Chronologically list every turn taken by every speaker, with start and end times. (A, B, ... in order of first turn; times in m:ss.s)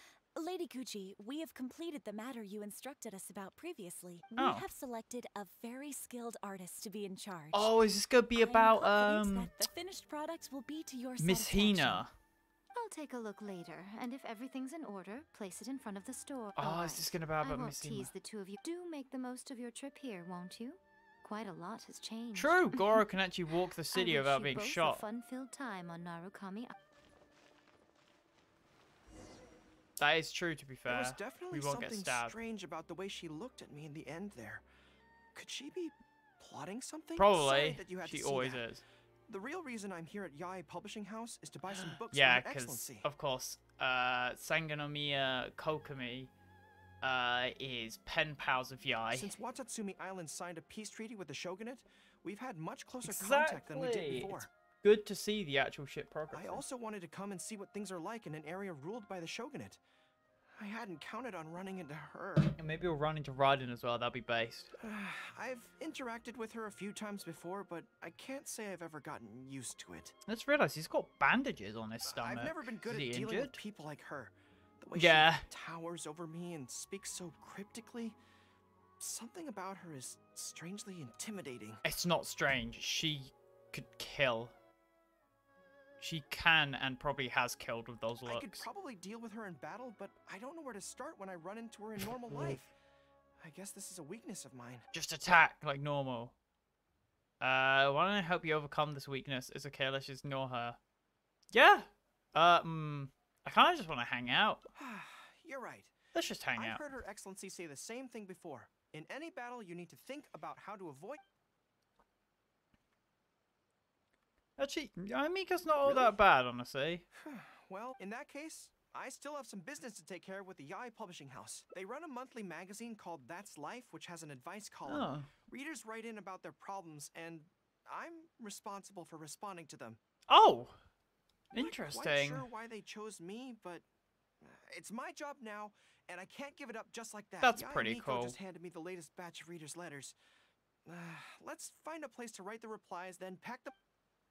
0:00.4-0:07.7 A
0:04.4-0:04.6 B
0:07.5-0:09.5 B
0:08.4-0:12.0 A
0:11.2-0:12.1 B
0:12.7-0:23.0 C
0:16.6-0:18.1 B
0:22.3-0:25.0 B
0:23.9-0:26.7 C
0:30.0-0:32.3 B
0:30.9-0:34.6 D
0:35.3-0:38.6 D
0:37.2-0:38.8 B
0:39.3-0:43.0 D
0:41.7-0:46.3 B
0:47.0-0:49.3 B
0:49.1-0:54.5 D
0:53.0-0:56.6 B
0:56.3-0:59.8 D
1:00.6-1:02.5 D
1:02.6-1:04.7 B
1:04.8-1:10.1 D
1:10.2-1:13.6 B
1:12.0-1:18.2 D
1:14.9-1:15.4 B
1:19.0-1:21.8 D
1:21.8-1:24.5 B
1:26.0-1:28.6 B
1:28.2-1:32.7 D
1:32.0-1:32.7 B
1:33.4-1:34.9 D
1:34.9-1:36.3 B
1:37.4-1:40.8 B
1:41.5-1:44.6 B
1:44.7-1:45.9 D
1:46.1-1:46.8 B
1:46.5-1:51.2 D
1:54.6-1:57.0 B
1:57.2-2:10.0 D
2:04.8-2:05.3 B
2:10.3-2:10.8 B
2:11.5-2:12.4 B
2:11.5-2:13.8 D
2:14.4-2:20.2 D
2:17.4-2:18.4 B
2:20.8-2:23.7 D